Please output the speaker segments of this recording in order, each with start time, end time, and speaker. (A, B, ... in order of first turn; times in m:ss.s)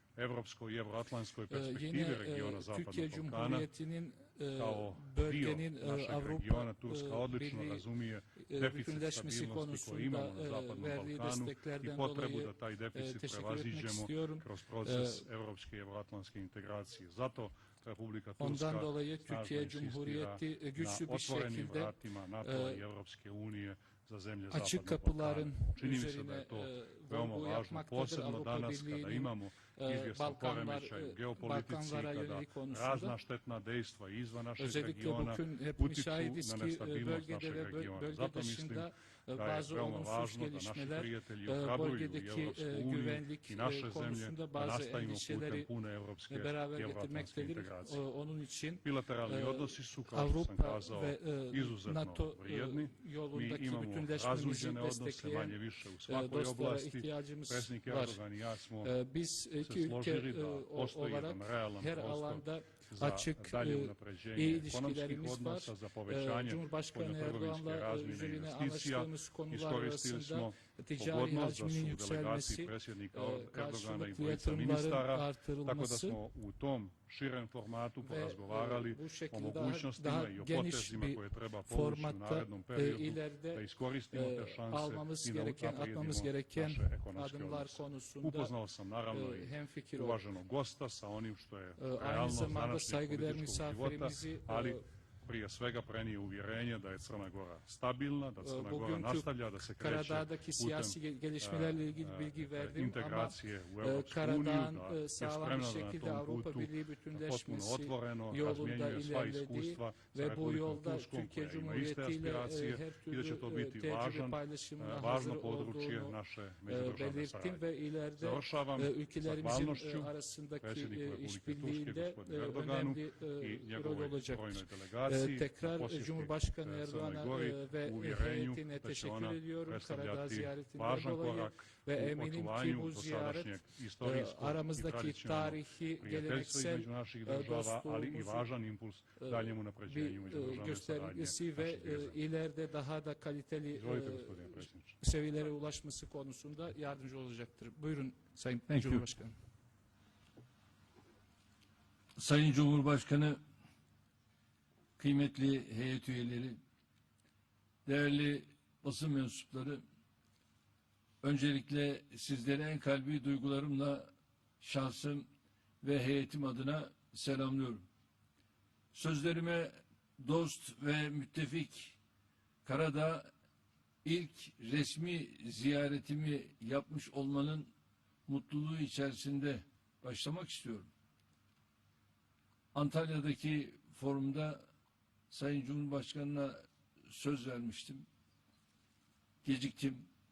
0:00.2-0:03.7 A
0:01.5-0:07.9 B
0:04.5-0:48.0 A
0:08.4-0:15.3 B
0:18.4-0:22.8 B
0:24.5-0:33.2 B
0:34.6-0:45.7 B
0:46.3-0:58.2 B
0:48.8-0:58.9 A
0:58.8-1:16.2 B
0:59.6-1:57.6 A
1:18.0-1:28.5 B
1:29.1-1:30.2 B
1:31.8-1:34.8 B
1:38.4-1:56.2 B
1:56.7-2:18.5 B
1:58.2-2:22.2 A
2:19.2-2:29.3 B
2:23.7-2:24.9 A
2:28.7-2:29.0 C
2:32.2-2:33.4 C
2:35.0-2:36.6 C
2:37.8-2:39.8 C
2:41.2-2:45.3 C
2:45.8-2:47.8 C
2:48.9-2:52.0 C
2:52.6-2:53.3 C
2:54.0-2:57.7 C
2:58.3-3:00.9 C
3:02.7-3:04.6 C
3:05.3-3:08.1 C
3:09.4-3:10.1 C